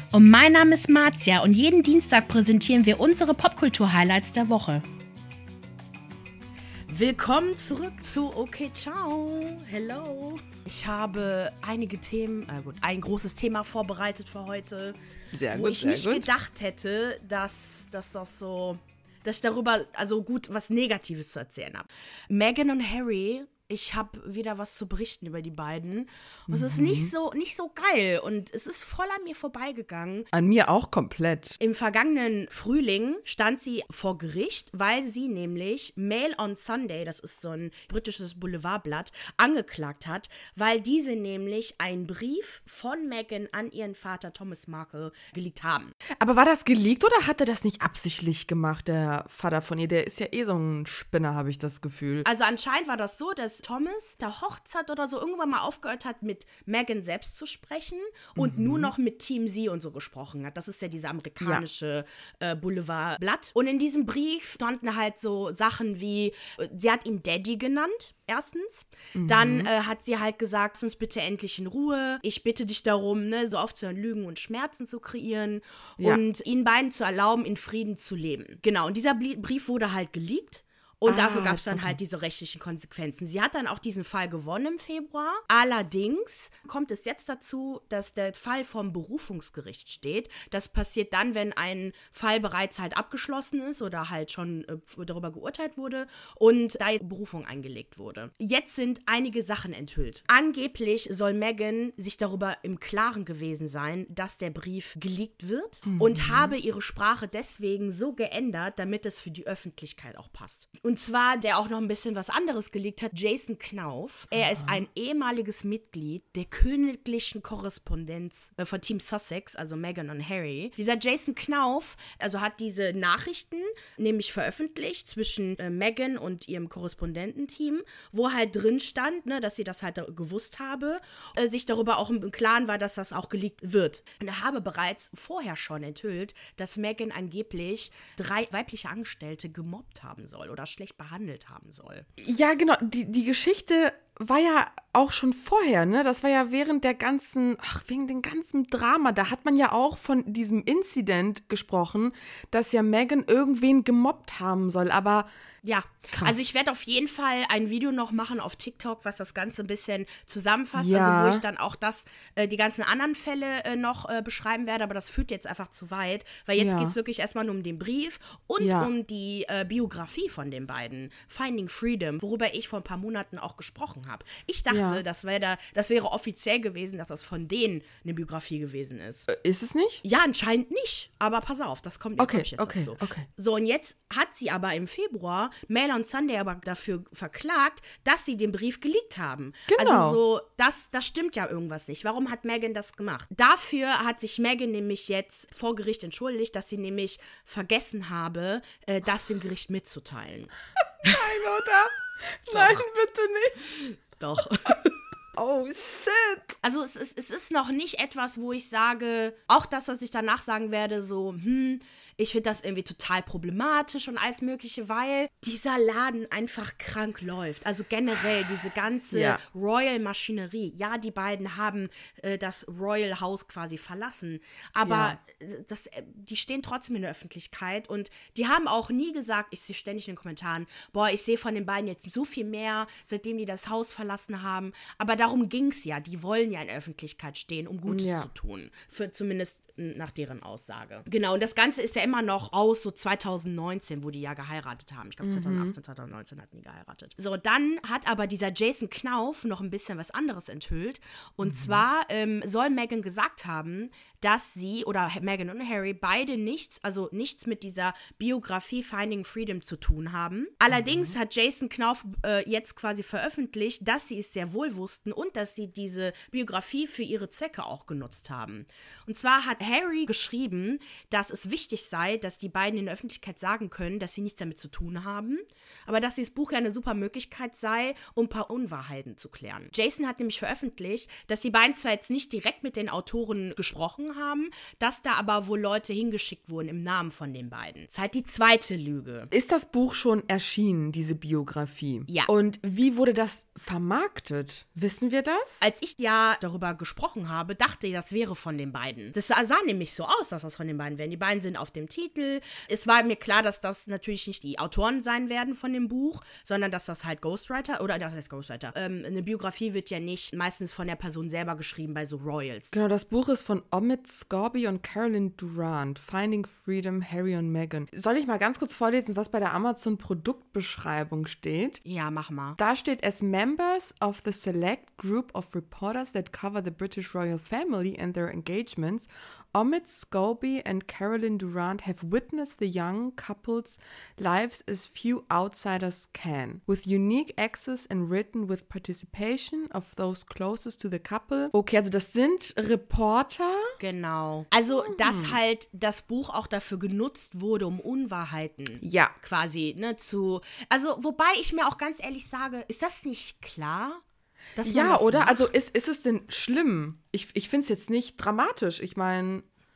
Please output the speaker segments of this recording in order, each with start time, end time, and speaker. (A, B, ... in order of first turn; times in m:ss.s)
0:00.1-0:04.8 A
0:06.9-0:30.3 A
0:15.3-0:16.3 B
0:26.5-0:27.1 B
0:30.3-0:31.6 B
0:31.6-0:45.9 A
0:46.2-0:52.3 B
0:52.2-2:22.1 A
0:58.4-0:58.9 B
1:09.1-1:09.7 B
1:21.1-1:22.0 B
1:45.8-1:46.5 B
1:54.3-1:54.8 B
2:22.2-2:35.3 B
2:35.6-2:59.3 A
2:40.8-2:41.4 B
2:46.6-2:47.0 B
2:48.6-2:48.9 B
2:54.7-2:55.0 B
2:59.3-3:00.0 B
3:00.0-3:20.5 A
3:02.2-3:03.3 B
3:09.7-3:10.2 B
3:21.0-3:23.8 B
3:21.0-3:21.3 A
3:22.5-3:22.8 A
3:24.2-3:25.0 A
3:25.4-3:26.6 B
3:26.6-4:49.3 A
3:39.1-3:39.4 B
3:44.8-3:45.2 B
3:57.9-3:58.3 B
4:05.2-4:05.7 B
4:11.4-4:11.8 B
4:20.7-4:21.1 B
4:49.3-4:55.6 B
4:55.6-5:12.7 A
5:12.7-5:21.8 B
5:21.8-5:22.6 A
5:22.6-5:43.7 B
5:43.8-5:54.0 A
5:44.7-5:45.4 B
5:48.8-5:49.1 B
5:54.6-5:55.5 A
5:54.6-5:59.4 B